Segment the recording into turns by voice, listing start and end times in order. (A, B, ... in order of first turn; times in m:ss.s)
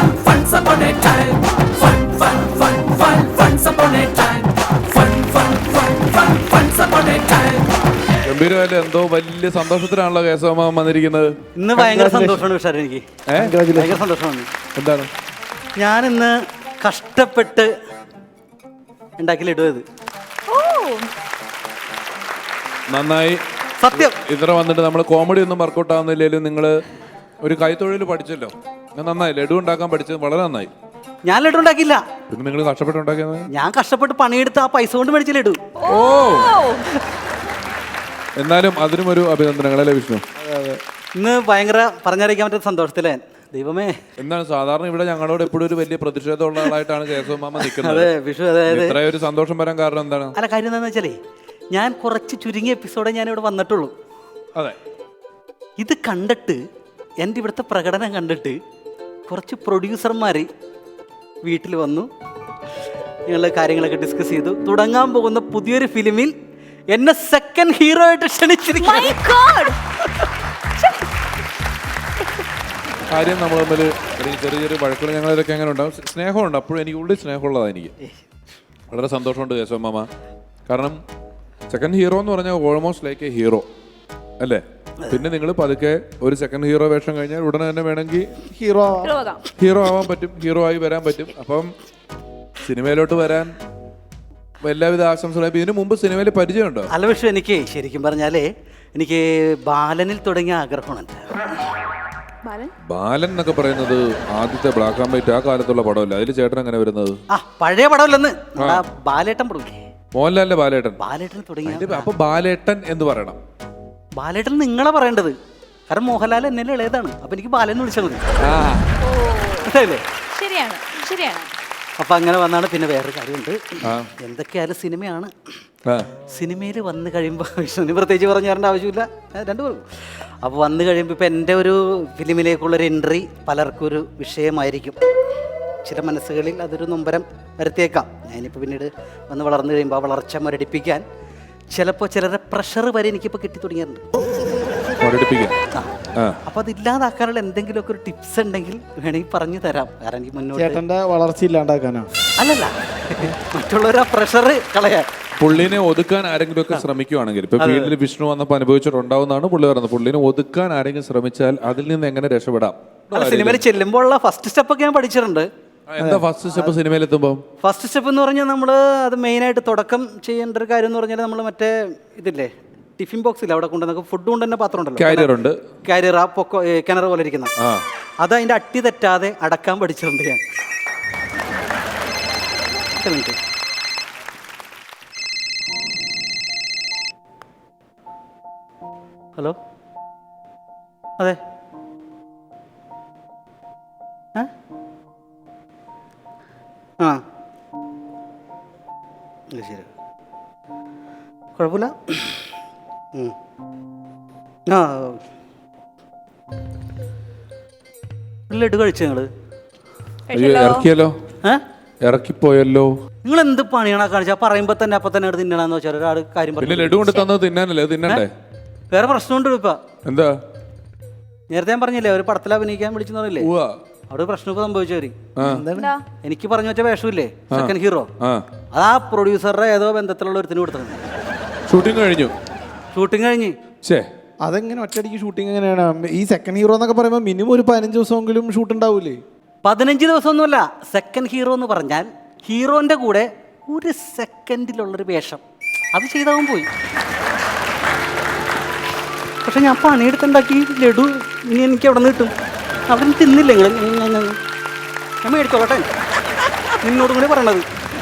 0:03.4-0:04.2 A
0:06.4-0:07.5 A
0:08.2-0:11.3 B
0:11.6-0:13.1 A
0:11.7-0:12.4 C
0:13.3-0:13.6 B
0:13.3-0:14.0 C
0:13.7-0:14.5 A
0:14.7-0:15.1 B
0:15.8-0:17.7 A
0:19.2-0:19.8 A
0:20.5-0:21.1 D
0:22.9-0:23.4 B
0:23.8-0:24.2 A
0:23.9-0:26.8 B
0:27.4-0:30.7 B
0:31.2-0:32.0 A
0:32.3-0:33.5 B
0:33.5-0:35.6 A
0:35.8-0:36.9 D
0:35.8-0:36.6 B
0:38.4-0:40.2 B
0:40.4-0:40.8 C
0:41.2-0:44.0 A
0:44.2-0:48.1 B
0:47.6-0:49.0 A
0:48.7-0:50.3 B
0:50.3-0:51.2 A
0:51.7-0:53.9 A
0:55.8-0:56.6 A
0:57.2-0:58.6 A
0:59.3-1:00.5 A
1:01.4-1:02.1 A
1:03.3-1:06.3 A
1:06.9-1:09.2 A
1:08.8-1:10.0 D
1:13.1-1:17.9 B
1:18.9-1:20.1 B
1:20.7-1:21.0 B
1:21.7-1:23.6 B
1:24.4-1:28.3 B
1:28.5-1:29.1 C
1:29.0-1:29.4 D
1:29.5-1:31.7 B
1:32.6-1:33.5 B
1:34.6-1:36.9 B
1:36.9-1:41.7 A
1:42.4-1:42.7 D
1:42.8-1:47.2 B
1:47.3-1:49.8 A
1:48.6-1:48.8 B
1:50.1-1:51.0 B
1:51.0-1:52.1 A
1:51.6-1:53.4 B
1:54.2-1:55.3 A
1:55.9-1:58.2 A
1:58.4-1:58.9 B
1:59.0-1:59.7 D
1:59.6-2:00.0 A
2:00.3-2:01.5 D
2:02.0-2:05.3 A
2:03.8-2:04.1 B
2:06.2-2:15.0 A
2:15.8-2:21.0 A
2:21.7-2:24.0 A
2:25.0-2:25.5 B
2:26.4-2:30.8 A
2:30.5-2:32.1 C
2:32.4-2:35.1 A
2:35.4-2:43.6 B
2:37.6-2:37.9 A
2:43.1-2:45.5 A
2:45.9-2:47.4 B
2:46.0-2:46.2 C
2:47.6-2:55.3 A
2:55.0-2:55.6 B
2:55.8-2:57.5 A
2:57.6-2:57.8 B
2:58.2-3:00.4 A
3:03.0-3:03.4 A
3:19.5-3:19.9 A
3:21.6-3:22.5 A
3:24.7-3:25.2 A
3:28.5-3:29.3 A
3:30.3-3:30.9 D
3:30.3-3:31.2 B
3:32.0-3:33.0 B
3:33.2-3:37.2 A
3:36.6-3:38.3 B
3:38.9-3:39.8 A
3:40.0-3:40.4 B
3:41.5-3:43.5 A
3:43.4-3:43.8 B
3:44.1-3:45.2 A
3:45.4-3:45.7 B
3:45.4-3:45.9 C
3:45.7-3:46.0 D
3:46.2-3:48.1 A
3:47.5-3:48.4 B
3:48.7-3:51.0 A
3:51.7-3:52.3 B
3:52.9-3:53.5 A
3:54.4-3:59.2 C
3:59.6-4:05.4 A
4:05.9-4:06.7 A
4:09.4-4:12.3 A
4:12.9-4:14.4 A
4:15.2-4:17.6 A